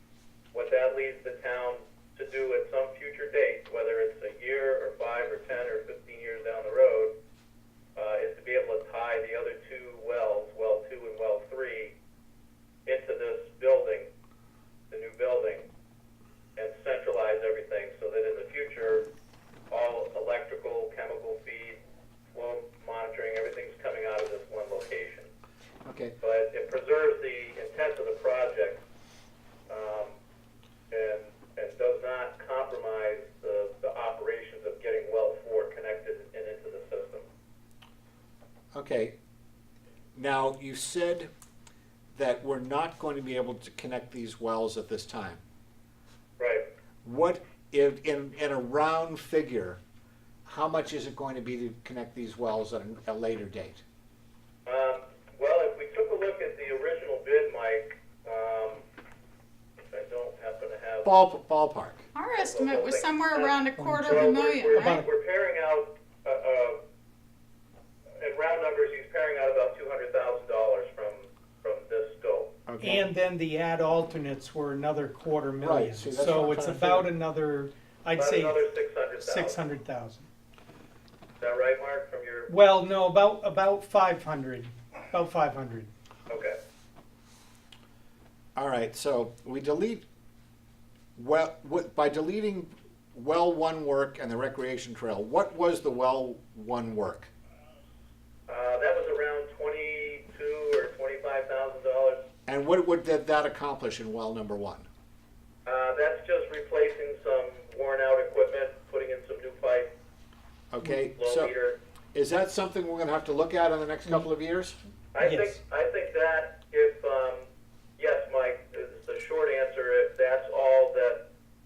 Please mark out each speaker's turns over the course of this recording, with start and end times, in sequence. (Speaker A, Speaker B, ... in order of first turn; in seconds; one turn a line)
Speaker A: 0.5-7.1
Speaker A: 8.0-11.9
Speaker A: 12.8-14.1
Speaker A: 14.9-15.7
Speaker A: 16.6-19.1
Speaker A: 19.7-21.8
Speaker A: 22.3-25.3
Speaker B: 25.8-26.1
Speaker A: 26.2-28.8
Speaker A: 29.7-30.2
Speaker A: 30.9-37.2
Speaker B: 38.7-39.1
Speaker B: 40.1-41.3
Speaker B: 42.1-45.4
Speaker A: 46.4-46.6
Speaker B: 47.0-49.8
Speaker B: 50.4-53.8
Speaker A: 54.6-58.8
Speaker A: 59.9-61.1
Speaker B: 61.0-62.0
Speaker C: 62.1-65.0
Speaker A: 62.4-66.8
Speaker D: 63.8-65.1
Speaker A: 68.2-72.5
Speaker B: 72.7-73.0
Speaker D: 72.8-78.6
Speaker B: 75.6-77.1
Speaker A: 78.2-79.6
Speaker D: 79.2-80.3
Speaker A: 81.4-82.5
Speaker D: 82.5-85.9
Speaker A: 86.3-86.6
Speaker B: 88.5-90.0
Speaker B: 91.2-97.3
Speaker A: 98.5-102.2
Speaker B: 102.5-104.9
Speaker A: 105.7-109.9
Speaker B: 110.7-111.5
Speaker A: 111.1-111.8
Speaker B: 112.1-114.8
Speaker A: 115.1-117.5
Speaker D: 115.2-115.6
Speaker A: 118.0-121.3